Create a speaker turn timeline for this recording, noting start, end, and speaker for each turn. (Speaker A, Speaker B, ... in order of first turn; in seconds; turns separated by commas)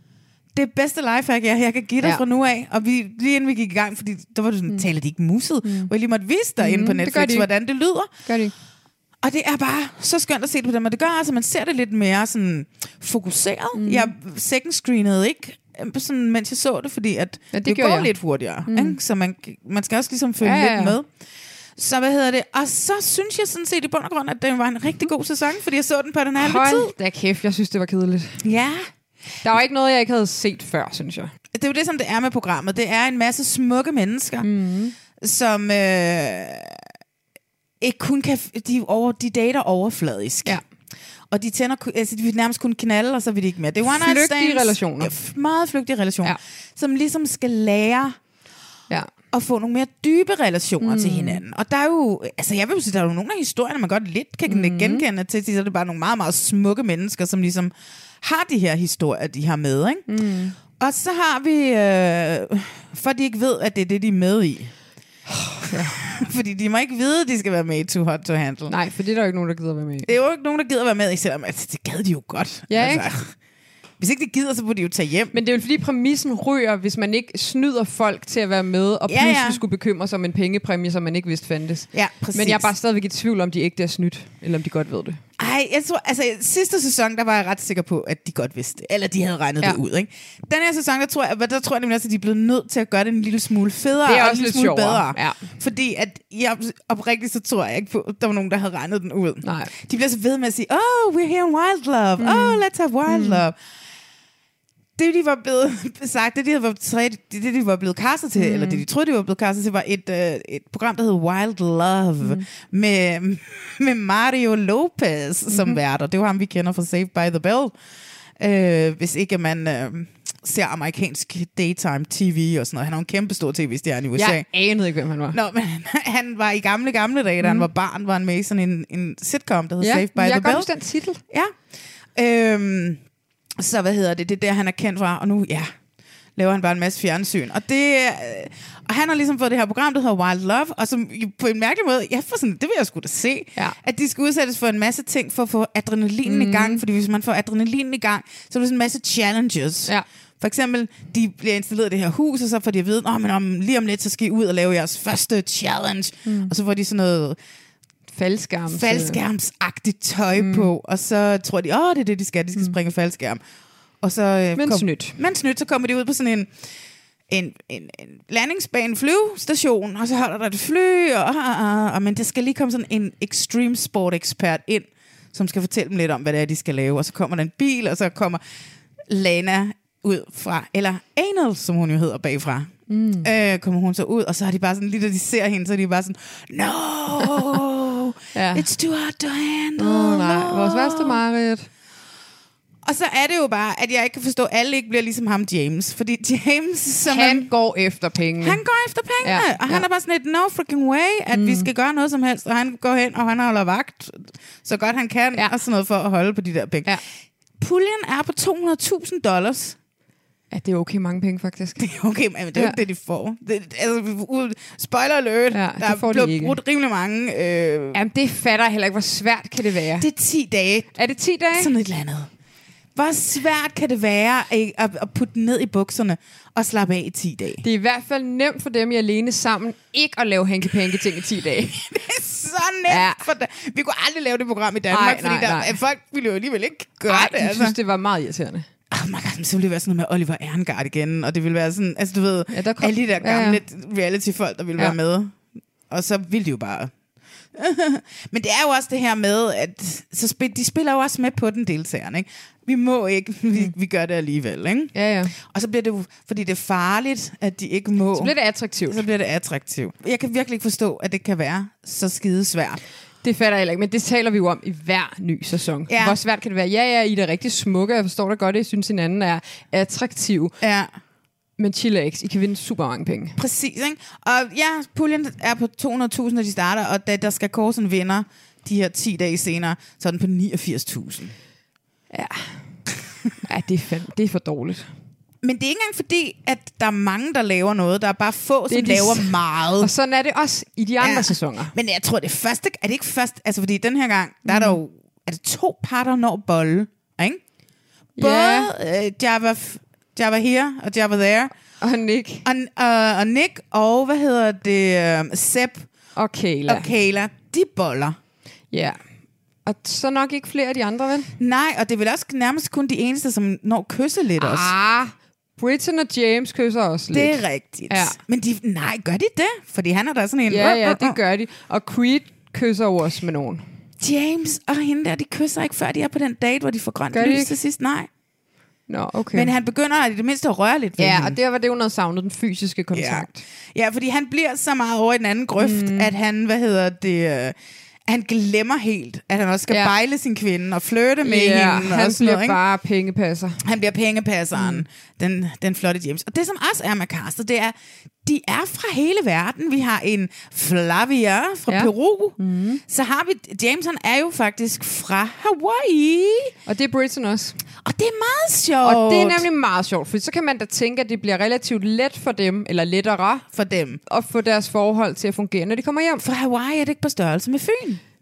Speaker A: 0.5-8.1, Speaker B: 5.6-5.9, Speaker B: 6.6-7.5, Speaker B: 8.2-8.5, Speaker A: 9.2-21.1, Speaker B: 13.8-14.1, Speaker B: 17.5-18.1, Speaker B: 18.7-19.0, Speaker B: 20.4-21.0, Speaker A: 21.8-26.9, Speaker B: 26.4-28.4, Speaker A: 28.4-28.8, Speaker B: 29.4-31.3, Speaker A: 31.5-34.5, Speaker B: 34.4-34.9, Speaker A: 35.2-36.8, Speaker A: 37.8-40.6, Speaker A: 41.3-48.2, Speaker B: 43.9-45.1, Speaker A: 49.3-60.0, Speaker B: 50.8-51.4, Speaker B: 54.5-55.0, Speaker B: 60.1-60.6, Speaker A: 60.8-64.7, Speaker B: 65.3-65.9, Speaker A: 65.9-68.7, Speaker B: 68.7-70.1, Speaker A: 70.0-73.3, Speaker B: 72.7-73.1, Speaker A: 74.0-75.3, Speaker B: 75.3-85.2, Speaker A: 79.1-79.6, Speaker A: 81.9-82.7, Speaker A: 85.4-103.5, Speaker B: 94.0-95.5, Speaker B: 99.4-99.7, Speaker B: 102.2-103.4, Speaker A: 105.0-117.7, Speaker B: 108.4-108.8, Speaker B: 115.5-115.8, Speaker A: 118.4-124.5, Speaker B: 124.1-125.4, Speaker A: 125.3-130.7, Speaker B: 127.4-127.7, Speaker B: 129.8-131.2, Speaker A: 131.3-131.6, Speaker A: 132.2-133.0, Speaker A: 133.6-135.7, Speaker A: 136.4-157.4, Speaker B: 146.2-146.8, Speaker B: 156.2-156.5, Speaker B: 158.1-159.2, Speaker A: 158.7-163.4, Speaker B: 160.4-160.7, Speaker A: 164.0-166.5, Speaker B: 164.6-165.2, Speaker A: 167.3-178.4, Speaker A: 179.1-182.7, Speaker B: 182.9-183.3, Speaker A: 183.2-191.2, Speaker B: 188.3-188.6, Speaker B: 189.8-191.7, Speaker A: 192.8-197.5, Speaker B: 197.1-198.6, Speaker A: 198.4-207.0, Speaker B: 199.2-199.8, Speaker B: 201.3-201.7, Speaker A: 207.6-209.8, Speaker B: 210.5-211.8, Speaker A: 211.8-218.0, Speaker B: 215.5-216.6, Speaker B: 217.9-220.1, Speaker A: 220.0-220.9, Speaker B: 220.9-221.7, Speaker A: 221.5-222.3, Speaker A: 222.9-227.6, Speaker B: 227.6-231.8, Speaker A: 231.7-237.8, Speaker B: 232.9-233.2, Speaker B: 234.9-235.8, Speaker B: 237.1-238.7, Speaker A: 238.9-245.4, Speaker B: 242.5-243.6, Speaker A: 245.9-246.9, Speaker A: 247.5-258.3, Speaker B: 254.9-255.3, Speaker B: 258.1-259.0, Speaker A: 258.9-262.8, Speaker B: 263.2-270.5, Speaker A: 265.9-266.2, Speaker A: 270.6-270.9, Speaker B: 271.6-273.4, Speaker A: 273.4-281.3, Speaker B: 282.1-282.6, Speaker B: 283.4-284.9, Speaker A: 285.4-289.9, Speaker B: 288.7-291.7, Speaker A: 291.0-297.4, Speaker B: 294.4-294.8, Speaker B: 298.2-298.7, Speaker A: 298.2-301.5, Speaker B: 301.8-302.4, Speaker A: 302.4-305.9, Speaker B: 306.1-306.9, Speaker A: 306.6-308.2, Speaker B: 308.7-309.0, Speaker B: 309.6-311.3, Speaker A: 311.4-314.7, Speaker B: 314.4-318.2, Speaker A: 317.1-321.2, Speaker B: 320.5-323.6, Speaker A: 324.0-328.1, Speaker B: 327.1-327.5, Speaker B: 328.9-329.5, Speaker A: 329.3-331.4, Speaker B: 331.0-333.4, Speaker A: 332.9-337.6, Speaker B: 335.6-336.1, Speaker A: 338.1-342.6, Speaker B: 341.2-343.6, Speaker A: 343.6-356.5, Speaker B: 344.5-344.8, Speaker B: 351.7-352.8, Speaker B: 356.7-357.6, Speaker A: 357.8-359.5, Speaker B: 358.8-363.4, Speaker A: 363.5-364.0, Speaker B: 364.1-366.2, Speaker A: 366.2-368.0